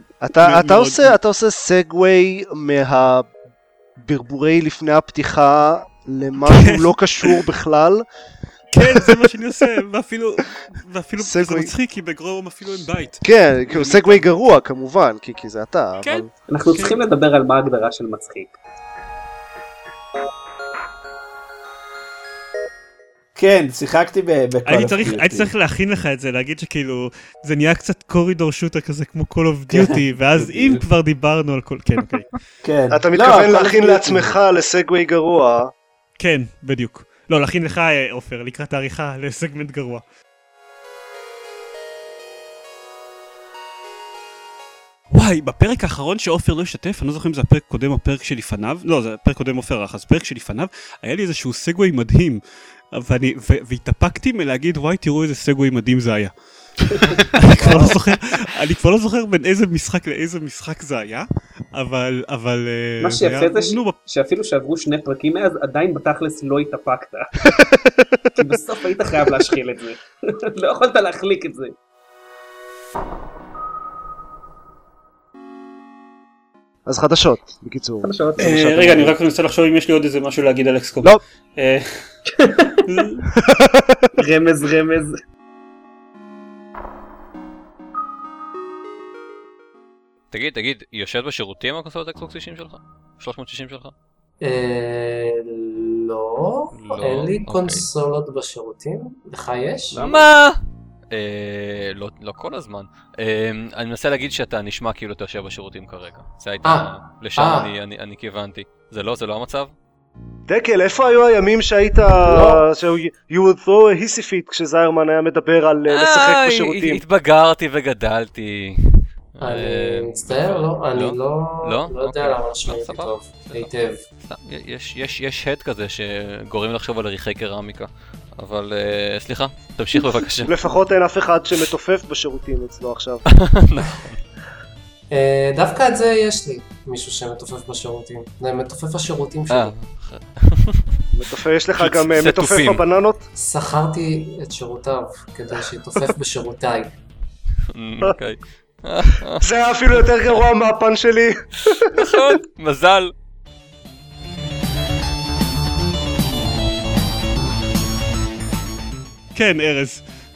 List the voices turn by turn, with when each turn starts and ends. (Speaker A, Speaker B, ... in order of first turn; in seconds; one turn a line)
Speaker A: 0.2-3.3
Speaker B: 0.4-1.1
Speaker A: 4.0-8.1
Speaker B: 6.5-7.4
Speaker B: 8.7-14.2
Speaker A: 11.2-11.7
Speaker A: 13.2-16.3
Speaker B: 16.0-17.0
Speaker C: 16.5-18.6
Speaker D: 23.4-25.5
Speaker B: 24.7-32.3
Speaker D: 29.7-30.8
Speaker D: 32.6-34.4
Speaker A: 32.9-35.7
Speaker B: 36.2-40.0
Speaker B: 45.1-52.4
Speaker B: 52.9-56.3
Speaker B: 57.4-64.0
Speaker A: 57.5-58.0
Speaker C: 63.0-67.3
Speaker C: 68.4-71.8
Speaker A: 76.9-79.1
Speaker C: 78.0-78.8
Speaker B: 78.4-81.9
Speaker C: 82.3-82.8
Speaker B: 82.9-83.3
Speaker A: 83.4-84.1
Speaker C: 84.2-85.2
Speaker E: 90.3-93.9
Speaker F: 94.4-100.0
Speaker E: 96.8-97.9
Speaker D: 99.9-100.3
Speaker E: 100.0-100.6
Speaker E: 101.1-109.7
Speaker F: 106.6-107.7
Speaker A: 110.5-117.0
Speaker F: 112.3-112.6
Speaker E: 115.9-118.8
Speaker E: 119.3-130.6
Speaker F: 119.4-124.0
Speaker A: 130.4-133.2
Speaker E: 133.3-134.2
Speaker F: 135.1-139.8
Speaker E: 139.5-140.9
Speaker A: 141.1-143.2
Speaker E: 141.8-142.8
Speaker F: 143.4-146.9
Speaker E: 147.7-149.4
Speaker A: 149.4-152.2
Speaker E: 151.8-153.1
Speaker B: 159.3-160.0